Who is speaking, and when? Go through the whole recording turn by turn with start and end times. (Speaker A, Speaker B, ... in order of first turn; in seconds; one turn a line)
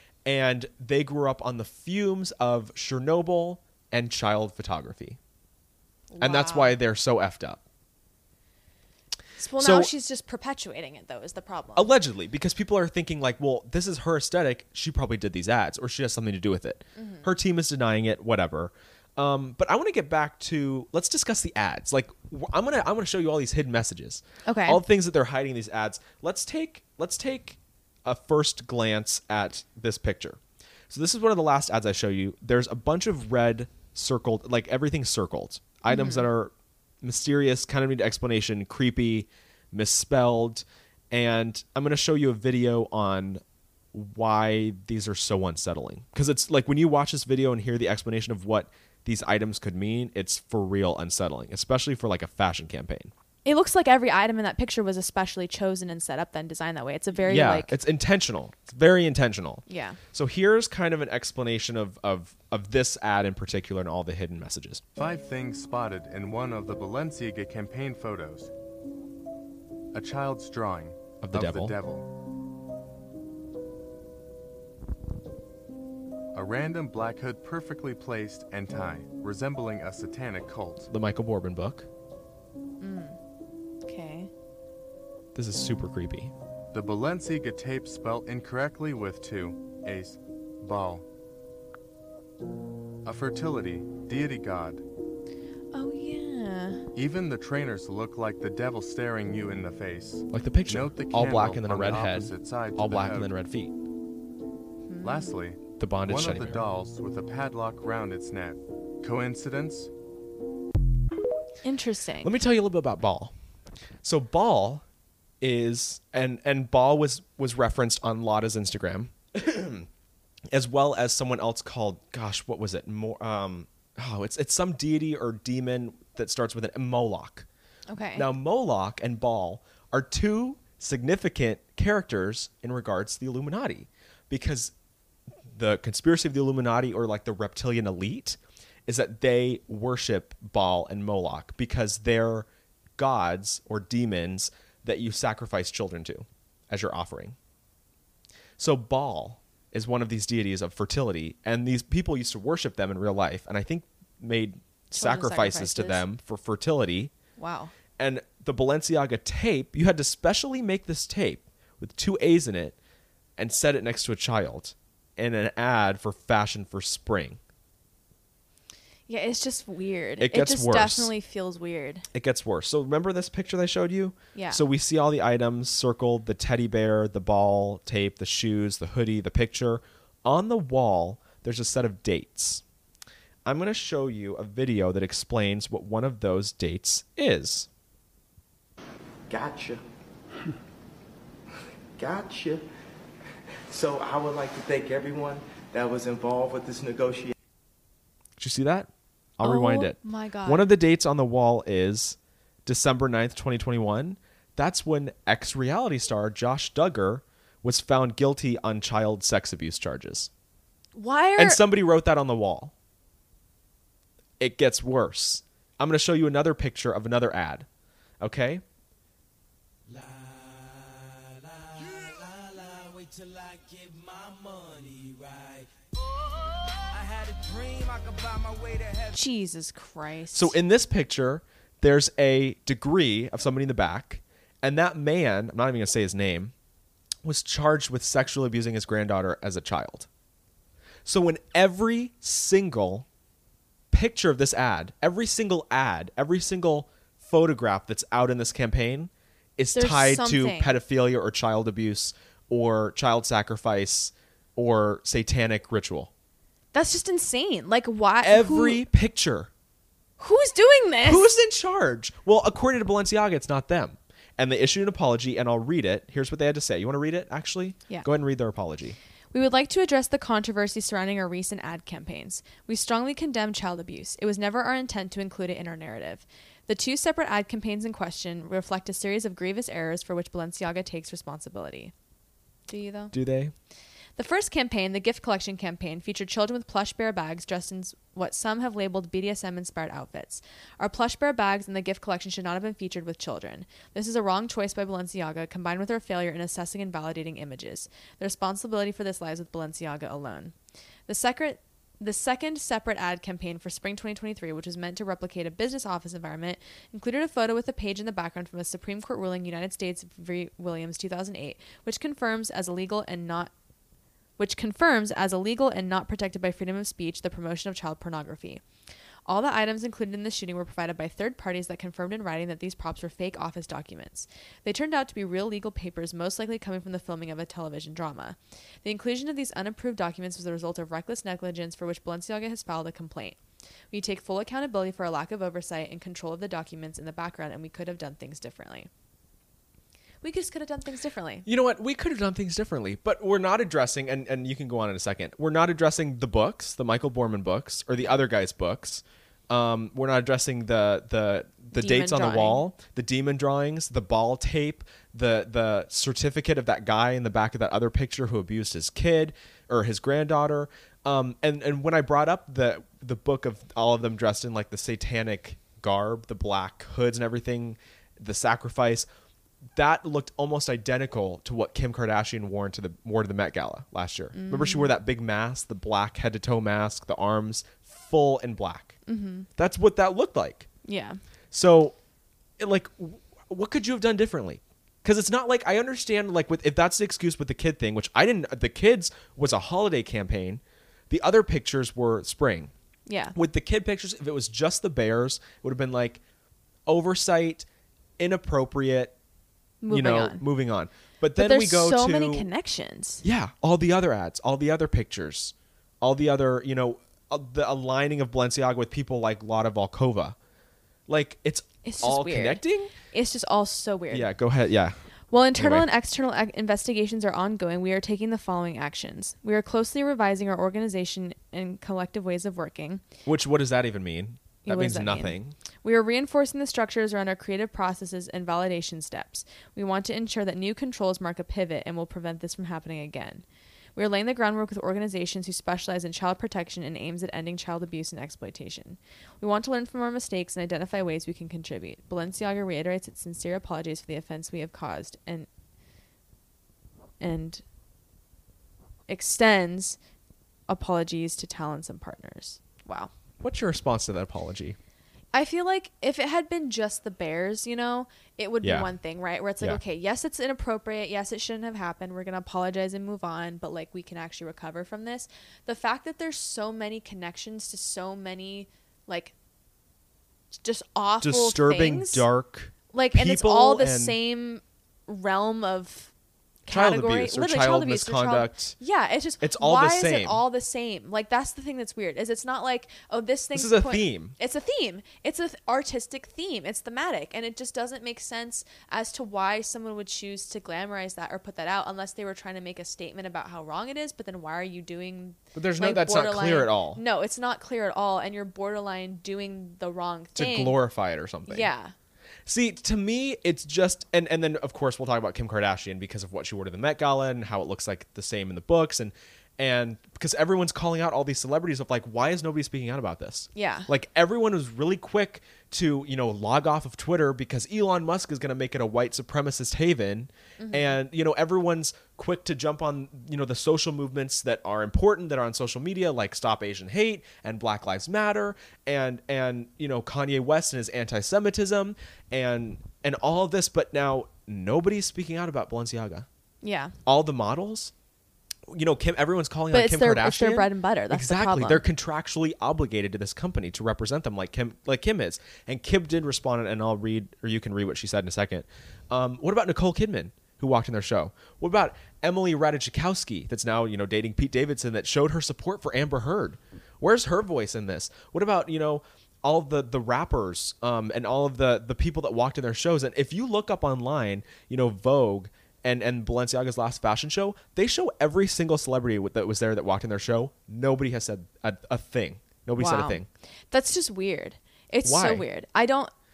Speaker A: 0.2-5.2
Speaker B: 6.1-6.8
Speaker A: 6.2-7.6
Speaker B: 9.4-11.9
Speaker A: 9.6-9.9
Speaker A: 11.8-43.4
Speaker B: 17.0-17.3
Speaker B: 24.5-24.8
Speaker B: 35.9-36.3
Speaker A: 43.9-53.1
Speaker B: 53.5-57.7
Speaker A: 57.2-64.8
Speaker B: 59.7-60.0
Speaker C: 65.0-68.5
Speaker C: 69.9-72.1
Speaker A: 71.2-71.8
Speaker C: 76.3-80.9
Speaker A: 80.9-81.9
Speaker B: 82.8-83.2
Speaker B: 83.8-84.3
Speaker A: 85.3-86.3
Speaker C: 86.7-91.0
Speaker C: 93.0-94.8
Speaker B: 95.7-96.8
Speaker C: 97.0-103.3
Speaker A: 100.3-103.7
Speaker B: 104.9-105.4
Speaker C: 105.0-109.9
Speaker A: 105.8-106.7
Speaker B: 111.6-112.3
Speaker A: 112.2-113.3
Speaker A: 114.0-114.8
Speaker A: 115.4-119.9
Speaker A: 120.5-127.5
Speaker B: 127.9-128.3
Speaker A: 128.2-134.7
Speaker A: 135.5-147.4
Speaker A: 148.6-157.1
Speaker B: 154.9-156.0
Speaker B: 157.4-157.7
Speaker A: 158.0-162.8
Speaker A: 163.4-167.4
Speaker B: 169.1-172.1
Speaker A: 170.2-171.1
Speaker A: 172.1-182.6
Speaker B: 174.3-174.6
Speaker A: 183.4-187.7
Speaker D: 189.3-189.8
Speaker D: 192.0-192.7
Speaker D: 193.7-197.3
Speaker A: 198.4-210.3
Speaker B: 199.4-200.7
Speaker B: 210.9-211.6
Speaker A: 211.4-212.7
Speaker A: 214.4-217.7
Speaker A: 218.2-218.6
Speaker E: 219.9-225.7
Speaker E: 226.8-229.2
Speaker B: 229.1-230.6
Speaker A: 230.3-236.5
Speaker A: 237.2-240.1
Speaker A: 241.1-243.1
Speaker A: 243.9-256.1
Speaker B: 249.7-250.8
Speaker B: 256.7-258.9
Speaker A: 258.2-259.5
Speaker B: 260.2-261.3
Speaker A: 261.0-269.0
Speaker B: 269.3-281.9
Speaker B: 282.7-283.1
Speaker A: 283.1-283.5
Speaker B: 284.2-300.5
Speaker B: 301.1-313.5
Speaker B: 314.4-318.6
Speaker B: 319.3-333.4
Speaker B: 333.9-338.9
Speaker B: 340.2-341.5
Speaker A: 341.4-369.1
Speaker B: 351.7-352.6
Speaker A: 369.8-379.0
Speaker B: 374.3-374.9
Speaker B: 379.1-379.5
Speaker A: 379.6-380.7
Speaker B: 380.9-381.2
Speaker A: 381.5-382.0
Speaker A: 382.6-392.7
Speaker B: 393.1-393.4
Speaker A: 393.4-396.2
Speaker A: 396.9-397.7
Speaker A: 398.2-399.1
Speaker B: 399.8-400.4
Speaker A: 399.9-402.5
Speaker B: 401.4-403.2
Speaker A: 403.2-410.4
Speaker A: 411.1-412.9
Speaker B: 411.9-414.3
Speaker A: 414.1-415.0
Speaker B: 415.3-423.0
Speaker A: 415.6-415.9
Speaker A: 423.3-425.6
Speaker B: 424.6-433.4
Speaker B: 434.0-445.5
Speaker B: 447.2-447.6
Speaker B: 449.1-450.0
Speaker B: 450.7-453.1
Speaker A: 453.4-454.8
Speaker B: 455.3-469.3
Speaker A: 458.6-458.9
Speaker B: 470.6-472.3
Speaker A: 471.2-474.2
Speaker B: 472.9-476.1
Speaker B: 476.7-500.8
Speaker A: 476.7-478.8
Speaker A: 479.4-480.4
Speaker A: 483.5-484.4
Speaker A: 495.6-497.0
Speaker A: 500.4-501.7
Speaker B: 501.5-501.9
Speaker A: 502.5-536.3
Speaker B: 513.5-513.9
Speaker B: 520.6-521.0
Speaker B: 536.6-537.0
Speaker A: 537.1-537.9
Speaker A: 538.7-573.3
Speaker B: 539.7-541.8
Speaker B: 572.8-576.1
Speaker A: 575.0-575.5